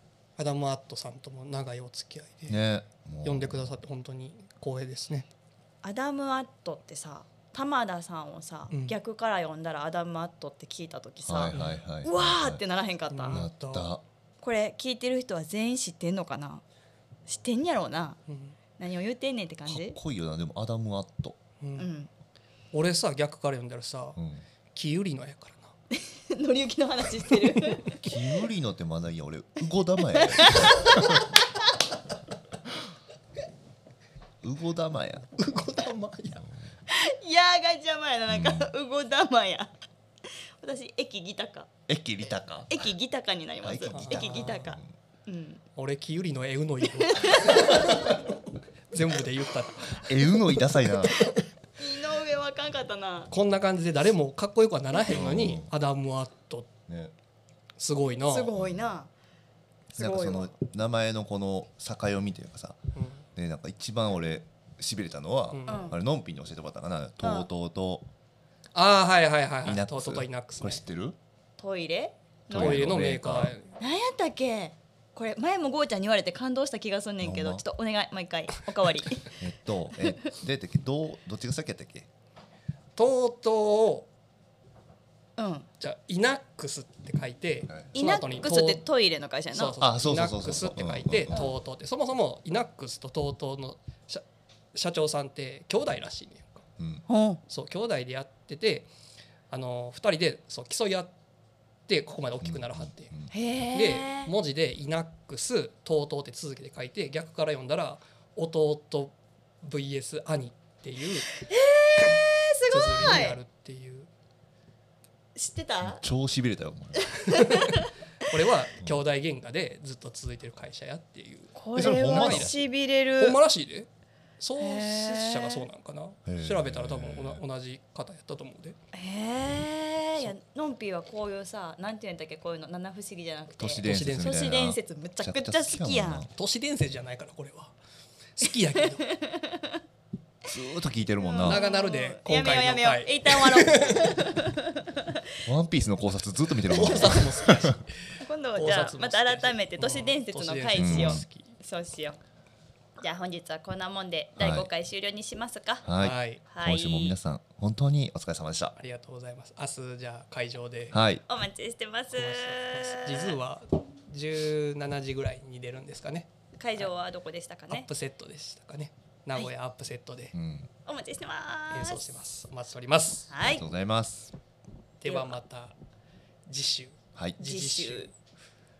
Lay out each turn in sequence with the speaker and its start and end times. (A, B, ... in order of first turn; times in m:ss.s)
0:00.4-0:02.6 A
0:02.5-0:03.7 B
0:03.2-0:05.3 A
0:05.8-0:13.4 C
0:08.7-0:09.0 A
0:11.2-0:12.6 B
0:11.5-0:11.8 A
0:13.1-0:13.9 A
0:13.3-0:14.0 B
0:14.4-0:16.6 C
0:17.3-0:18.2 C
0:18.3-0:18.6 A
0:18.8-0:20.0 C
0:19.6-0:21.4 B
0:21.6-0:21.9 A
0:21.8-0:22.1 C
0:22.7-0:24.2 A
0:24.2-0:24.4 B
0:24.7-0:25.7 A
0:25.9-0:28.0 C
0:27.5-0:27.8 A
0:27.9-0:31.2 B
0:30.1-0:31.2 C
0:34.4-0:35.4 B
0:35.4-0:36.5 A
0:36.9-0:39.7 C
0:38.3-0:38.7 B
0:40.3-0:41.7 C
0:41.9-0:42.8 B
0:42.7-0:45.6 C
0:43.6-0:44.9 B
0:43.9-0:44.6 A
0:45.8-0:48.1 A
0:47.0-0:47.9 C
0:48.9-0:50.6 A
0:50.0-0:51.2 B
0:51.8-0:53.3 C
0:53.3-0:56.7 A
0:55.1-0:55.7 B
0:56.9-0:57.1 B
0:57.8-0:58.5 A
0:58.2-0:59.1 C
0:59.9-1:02.8 B
1:00.0-1:00.5 C
1:03.0-1:03.2 A
1:03.4-1:08.1 B
1:05.5-1:05.9 A
1:05.7-1:06.0 C
1:07.2-1:07.5 C
1:08.8-1:10.8 A
1:09.6-1:11.2 B
1:11.6-1:12.9 C
1:12.5-1:13.6 B
1:12.5-1:13.7 A
1:13.8-1:19.3 C
1:17.2-1:17.6 B
1:19.4-1:22.1 B
1:23.0-1:24.1 A
1:25.4-1:25.7 C
1:25.8-1:28.8 A
1:27.7-1:28.0 B
1:27.9-1:29.8 C
1:29.5-1:34.2 A
1:29.8-1:31.5 B
1:34.7-1:36.6 A
1:36.8-1:37.0 B
1:37.1-1:37.4 C
1:37.5-1:38.9 A
1:39.5-1:41.1 A
1:41.9-1:43.1 A
1:42.4-1:43.3 B
1:43.3-1:44.3 C
1:43.7-1:51.3 A
1:51.3-1:53.4 C
1:52.7-1:54.1 A
1:55.4-1:56.0 C
1:55.8-1:57.2 B
1:57.0-1:57.9 C
1:58.2-2:02.6 A
2:01.5-2:03.4 C
2:01.8-2:02.5 B
2:03.2-2:03.9 A
2:04.4-2:08.8 A
2:04.6-2:05.6 C
2:06.2-2:07.4 B
2:08.9-2:16.3 C
2:13.6-2:16.3 B
2:13.8-2:14.4 A
2:16.3-2:17.8 A
2:18.4-2:19.1 A
2:19.0-2:19.8 C
2:20.5-2:21.6 B
2:21.2-2:25.2 C
2:21.4-2:24.1 A
2:25.5-2:27.8 B
2:26.7-2:31.6 A
2:28.2-2:32.2 C
2:30.8-2:31.2 B
2:33.0-2:35.9 C
2:34.4-2:34.7 B
2:35.8-2:38.8 B
2:36.0-2:36.4 A
2:36.5-2:37.2 C
2:38.8-2:41.0 A
2:40.9-2:41.2 B
2:41.2-2:43.4 C
2:42.1-2:46.9 A
2:46.6-2:47.9 C
2:47.7-2:50.3 A
2:50.3-2:50.7 B
2:50.9-2:52.2 C
2:51.7-2:53.3 A
2:53.3-2:53.6 C
2:53.4-2:54.3 B
2:55.0-2:55.7 A
2:55.0-2:55.4 C
2:56.5-2:58.1 A
2:57.4-2:58.1 C